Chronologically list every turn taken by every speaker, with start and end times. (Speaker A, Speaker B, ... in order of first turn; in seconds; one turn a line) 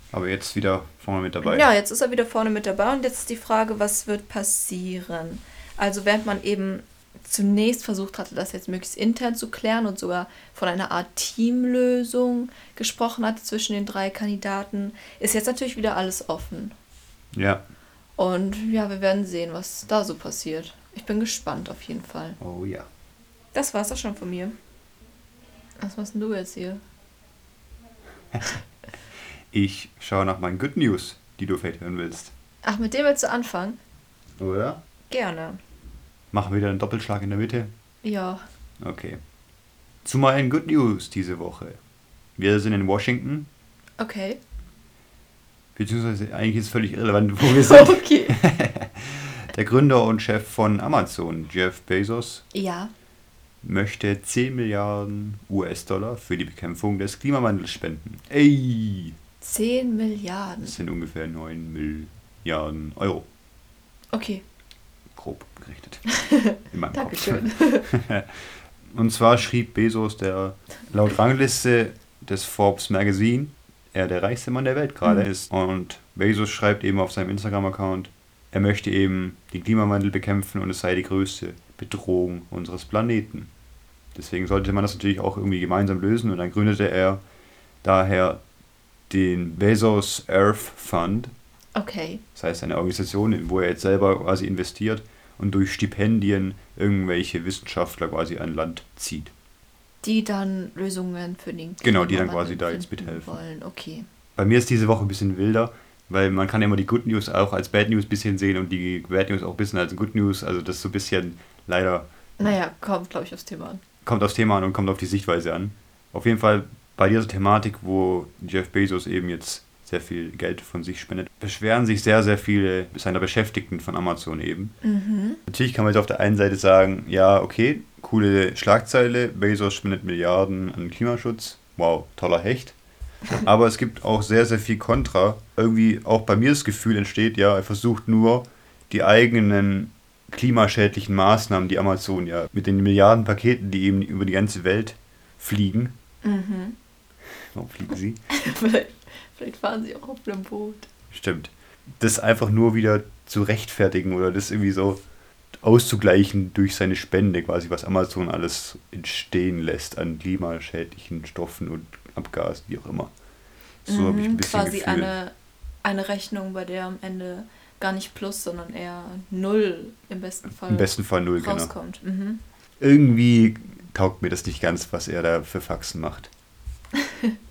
Speaker A: 0.1-1.7
Speaker B: 1.4-16.8
Speaker A: 17.3-17.6
Speaker B: 18.2-22.4
Speaker A: 22.4-22.9
Speaker B: 23.5-24.6
Speaker B: 25.8-26.8
Speaker A: 29.5-32.3
Speaker B: 32.6-33.8
Speaker A: 34.4-34.8
Speaker B: 35.1-35.6
Speaker A: 36.3-37.7
Speaker B: 38.0-38.5
Speaker A: 38.8-39.2
Speaker A: 40.0-41.8
Speaker A: 42.4-43.5
Speaker B: 44.0-44.4
Speaker A: 45.8-52.5
Speaker B: 47.4-48.4
Speaker B: 52.5-52.9
Speaker A: 53.6-59.2
Speaker B: 59.4-60.8
Speaker A: 60.6-63.3
Speaker B: 64.1-64.4
Speaker A: 65.1-66.0
Speaker B: 66.1-67.9
Speaker A: 66.7-83.5
Speaker A: 84.2-87.2
Speaker A: 87.8-88.4
Speaker A: 89.1-91.3
Speaker B: 91.8-92.2
Speaker A: 92.4-99.3
Speaker B: 100.0-104.1
Speaker A: 101.8-103.4
Speaker A: 104.4-112.5
Speaker B: 112.4-113.8
Speaker A: 114.0-124.8
Speaker B: 124.8-125.4
Speaker A: 125.5-132.8
Speaker A: 133.3-145.9
Speaker B: 146.2-146.8
Speaker A: 147.5-148.2
Speaker B: 148.3-150.9
Speaker A: 151.1-155.0
Speaker A: 155.6-163.1
Speaker A: 163.9-165.1
Speaker B: 163.9-165.3
Speaker B: 165.8-172.4
Speaker A: 170.6-171.7
Speaker A: 172.8-176.3
Speaker B: 176.9-177.3